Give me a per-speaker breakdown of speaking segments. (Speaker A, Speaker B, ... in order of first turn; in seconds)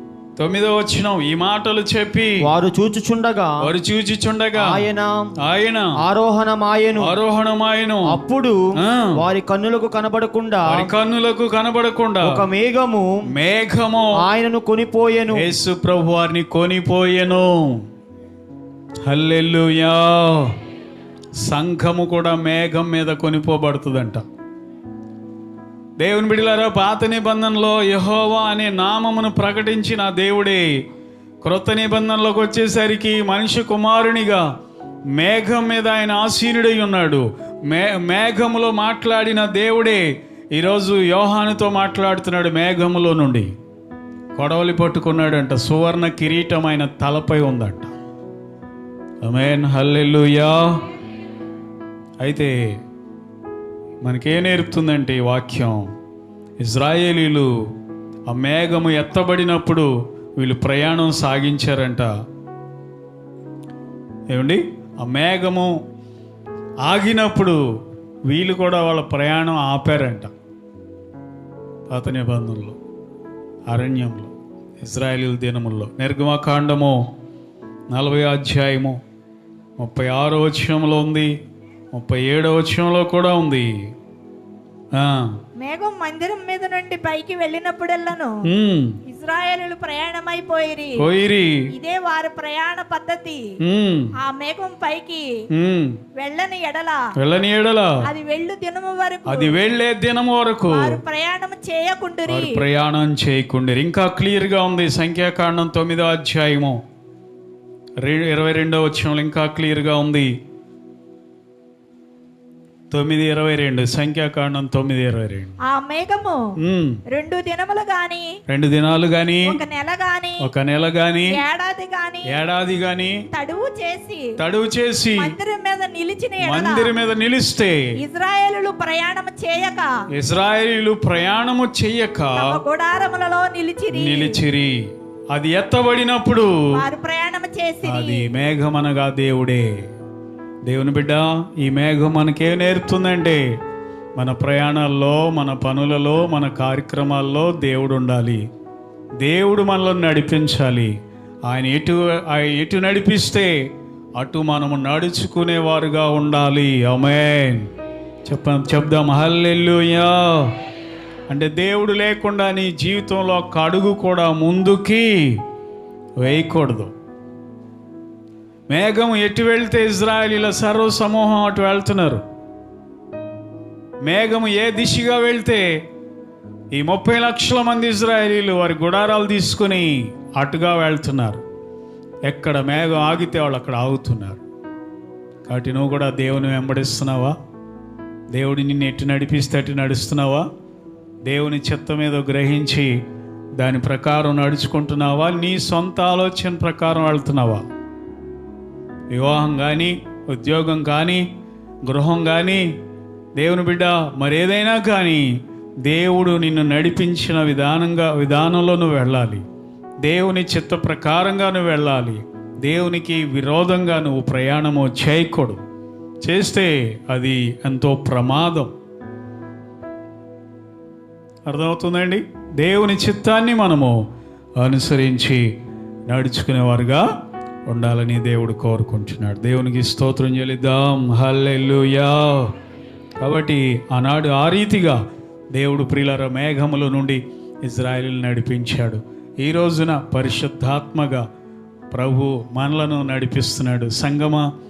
Speaker A: 0.4-2.5, 3.6-4.9, 5.4-6.0, 7.0-8.2, 8.8-9.2, 10.7-12.4, 13.3-14.2, 15.3-17.8, 19.0-20.6, 21.4-24.2, 26.0-30.7, 31.4-34.4, 35.1-43.5, 44.3-47.9, 49.2-50.8, 52.2-52.6, 54.0-55.9, 56.6-57.5, 58.3-62.1, 64.3-65.8, 66.8-67.6, 68.3-70.3, 71.9-72.8, 73.7-77.0, 77.9-79.0, 79.8-81.3, 81.9-83.7, 84.9-85.4, 88.5-89.0, 91.0-91.7, 93.6-94.1, 95.5-96.0, 97.1-98.0, 99.2-101.0, 102.3-106.8, 108.0-110.3, 112.9-115.6, 116.6-117.0, 118.5-119.6, 120.4-121.4, 122.2-123.2, 124.4-125.3, 126.4-127.9, 130.1-132.6, 133.9-136.8, 137.8-139.7, 140.7-143.4, 144.2-148.4, 149.2-150.9, 151.5-153.5, 154.2-157.7, 158.3-160.5, 161.3-165.4, 166.2-166.9, 168.7-172.2, 174.0-175.8, 176.7-181.4, 182.3-184.4, 185.4-187.3, 188.3-190.5, 191.2-192.9, 193.6-197.7, 199.1-201.2, 201.8-202.7, 203.3-205.3, 205.8-209.4, 210.0-215.6, 216.2-218.7, 221.5-224.0, 224.6-225.5, 226.1-227.0, 227.7-232.5, 233.2-235.0, 235.5-241.2, 241.9-244.5
Speaker B: 2.4-3.5, 4.5-5.3, 6.0-7.2, 8.1-8.6, 9.1-10.9, 12.2-13.1, 14.2-15.5
Speaker C: 85.6-88.4, 89.0-91.0, 91.7-93.5, 94.2-95.3, 96.1-97.1, 98.0-99.6, 100.7-102.6, 115.6-116.5, 117.1-118.4, 119.4-120.5, 121.3-122.4, 123.3-124.3, 125.1-126.9, 128.0-129.9, 132.3-134.4, 136.7-138.3